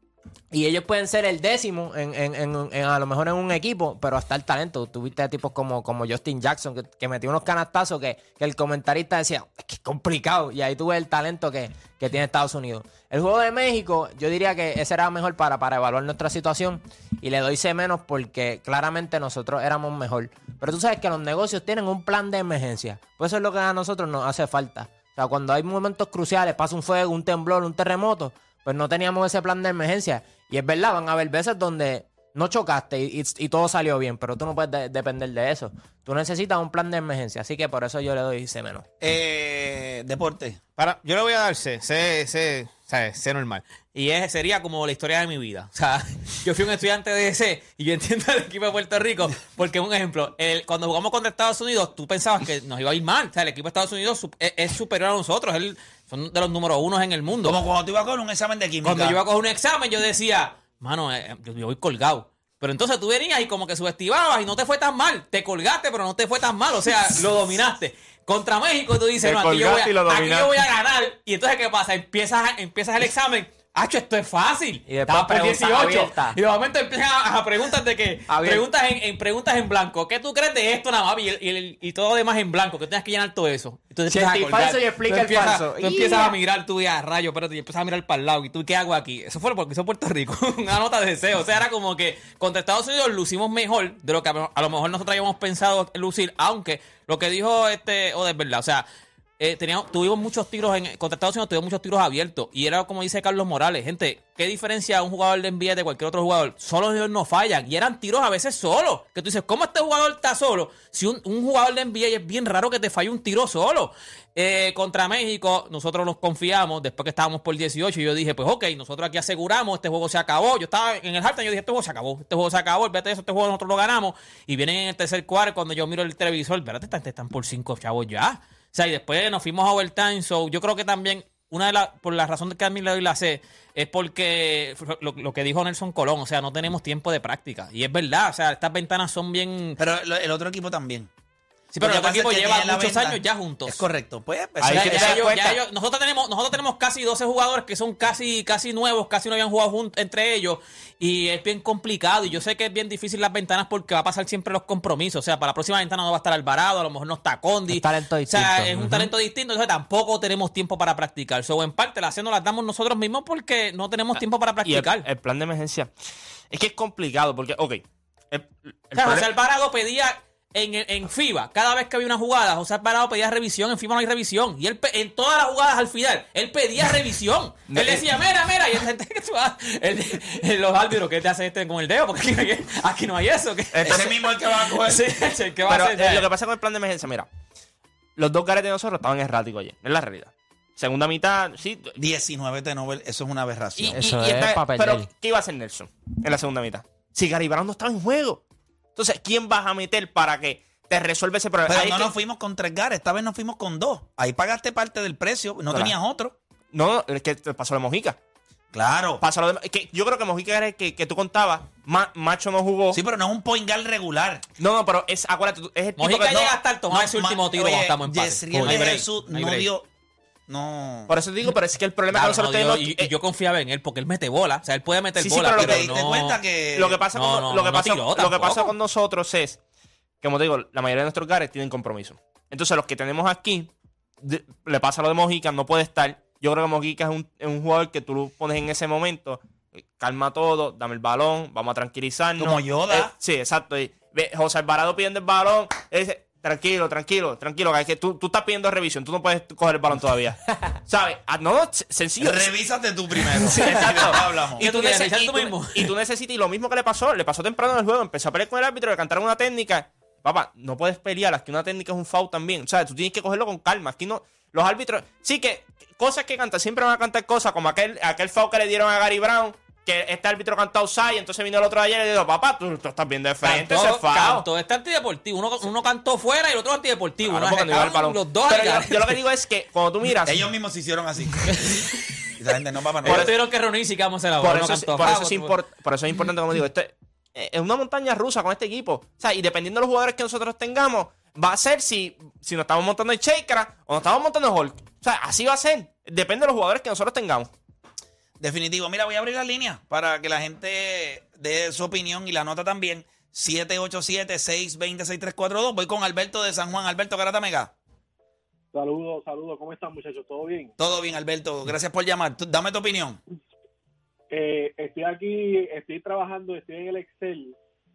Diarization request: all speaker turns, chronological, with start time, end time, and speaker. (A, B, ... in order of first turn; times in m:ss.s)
0:00.5-0:38.9 A
0:39.0-0:40.6 B
0:40.8-0:57.6 C
0:57.4-0:59.2 B
0:58.8-1:38.9 C
1:09.2-1:10.5 D
1:14.9-1:16.4 A
1:18.3-1:18.6 A
1:24.1-1:26.4 A
1:39.4-2:19.8 C
2:19.8-2:21.1 B
2:21.7-2:23.8 C
2:21.8-2:25.3 B
2:24.6-2:25.6 D
2:24.7-2:45.1 C
2:37.7-2:39.1 A
2:44.2-2:45.9 D
2:46.5-2:49.3 D
2:49.0-3:06.3 C
2:57.7-2:58.0 D
3:03.7-3:04.1 D
3:03.8-3:05.1 B
3:05.7-3:07.3 D
3:08.2-3:12.0 D
3:12.0-3:14.0 B
3:13.8-3:18.4 D
3:13.9-3:15.1 A
3:19.0-3:22.1 D
3:21.7-3:26.4 B
3:26.7-3:28.2 D
3:28.7-3:29.2 B
3:29.2-3:33.0 D
3:32.9-3:34.4 B
3:34.6-3:36.4 D
3:36.0-3:39.7 C
3:36.3-3:39.9 B
3:38.6-3:39.0 D
3:40.5-3:41.1 B
3:41.1-3:43.1 D
3:42.1-3:46.4 C
3:45.2-3:45.9 D
3:45.5-3:47.0 B
3:46.8-3:49.6 D
3:47.1-3:48.7 C
3:50.2-3:53.7 D
3:54.2-3:59.4 D
4:00.0-4:12.5 D
4:02.4-4:03.1 B
4:12.2-4:14.6 B
4:13.4-4:34.5 D
4:13.6-4:15.9 C
4:33.4-4:39.2 C
4:37.2-4:40.5 D
4:40.2-4:41.9 B
4:41.5-4:42.2 C
4:42.4-4:43.3 B
4:43.0-4:43.3 D
4:43.0-4:45.5 C
4:44.4-4:57.5 D
4:58.4-5:07.7 B
5:08.7-5:10.7 E
5:10.8-5:13.2 B
5:14.3-5:17.6 E